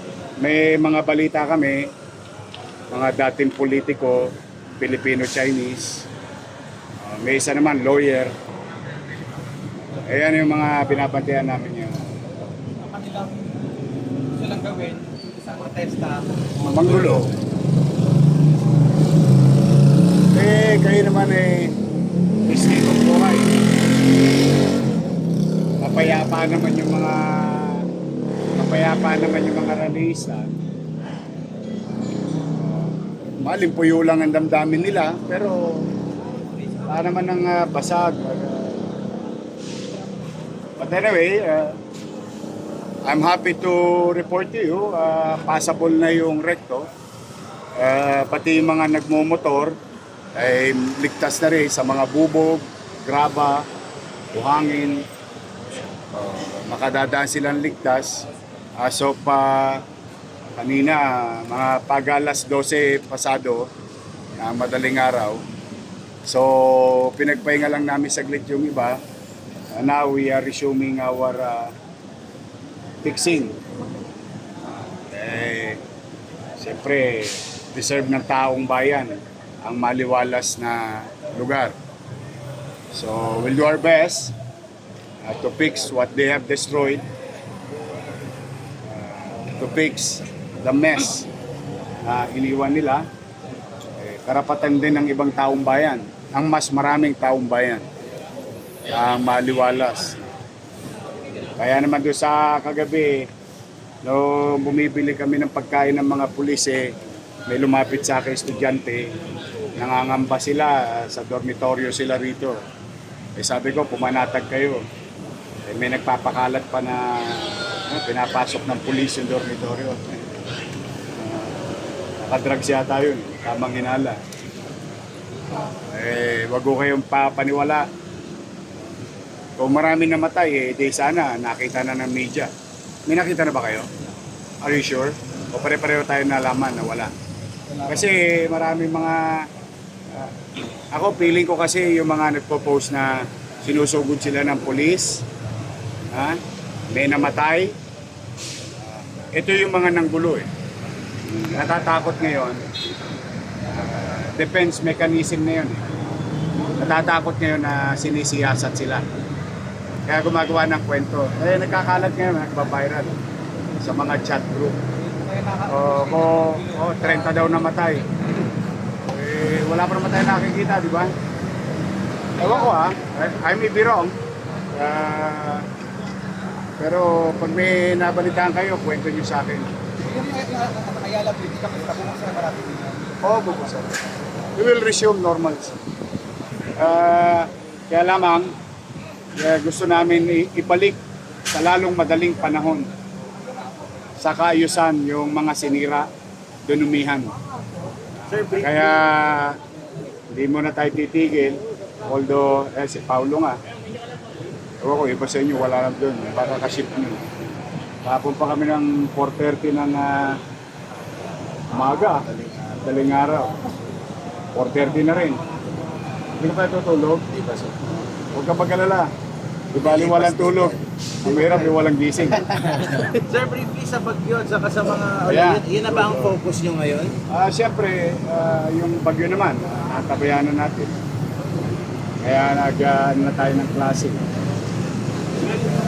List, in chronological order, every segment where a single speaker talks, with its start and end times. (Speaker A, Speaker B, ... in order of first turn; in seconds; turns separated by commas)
Speaker A: 0.4-1.9, Speaker A: 2.9-6.1, Speaker A: 7.0-8.3, Speaker A: 10.1-12.1, Speaker B: 12.8-13.3, Speaker B: 14.3-16.2, Speaker A: 16.6-17.3, Speaker A: 20.3-21.8, Speaker A: 22.5-23.5, Speaker A: 25.8-27.9, Speaker A: 28.5-30.6, Speaker A: 33.4-35.9, Speaker A: 36.9-38.9, Speaker A: 40.8-41.8, Speaker A: 43.1-46.9, Speaker A: 47.8-49.8, Speaker A: 50.4-53.6, Speaker A: 54.3-55.0, Speaker A: 56.1-58.3, Speaker A: 58.8-59.8, Speaker A: 60.6-63.7, Speaker A: 64.4-65.4, Speaker A: 66.3-69.0, Speaker A: 69.8-71.7, Speaker A: 73.0-73.6, Speaker A: 75.0-75.8, Speaker A: 76.6-79.1, Speaker A: 79.7-81.8, Speaker A: 82.9-84.3, Speaker A: 85.2-87.0, Speaker A: 88.9-91.3, Speaker A: 92.0-93.0, Speaker A: 94.0-97.8, Speaker A: 98.9-100.2, Speaker A: 101.6-103.3, Speaker A: 104.0-106.8, Speaker A: 107.5-109.0, Speaker A: 109.8-112.6, Speaker A: 113.4-114.8, Speaker A: 115.7-120.2, Speaker A: 121.2-121.6, Speaker A: 122.2-124.2, Speaker A: 125.9-127.8, Speaker A: 129.6-132.5, Speaker A: 133.1-133.9, Speaker A: 134.6-137.1, Speaker A: 137.9-139.5, Speaker A: 140.9-145.2, Speaker A: 146.1-146.4, Speaker A: 146.9-147.7, Speaker A: 148.9-150.5, Speaker A: 151.4-152.6, Speaker A: 153.7-155.8, Speaker A: 156.8-159.1, Speaker A: 160.1-163.2, Speaker A: 163.8-164.8, Speaker B: 165.2-167.2, Speaker A: 165.7-168.1, Speaker A: 169.1-171.1, Speaker A: 172.4-174.2, Speaker A: 174.7-175.7, Speaker A: 176.8-179.7, Speaker B: 180.1-183.1, Speaker A: 183.2-184.0, Speaker A: 184.6-185.8, Speaker A: 186.8-188.5, Speaker A: 189.4-191.0, Speaker A: 191.5-192.9, Speaker A: 194.2-196.1, Speaker A: 196.7-197.3, Speaker C: 198.3-199.1, Speaker A: 198.6-199.6, Speaker A: 200.3-203.6, Speaker A: 204.8-207.2, Speaker A: 208.1-210.4, Speaker A: 211.7-213.5, Speaker C: 212.3-212.6, Speaker A: 214.5-215.4, Speaker A: 216.4-217.2, Speaker C: 217.3-217.8, Speaker A: 217.9-219.1, Speaker A: 219.7-222.5, Speaker C: 219.8-221.8, Speaker C: 222.3-227.2, Speaker A: 225.3-226.4, Speaker A: 227.3-231.0, Speaker A: 232.2-234.2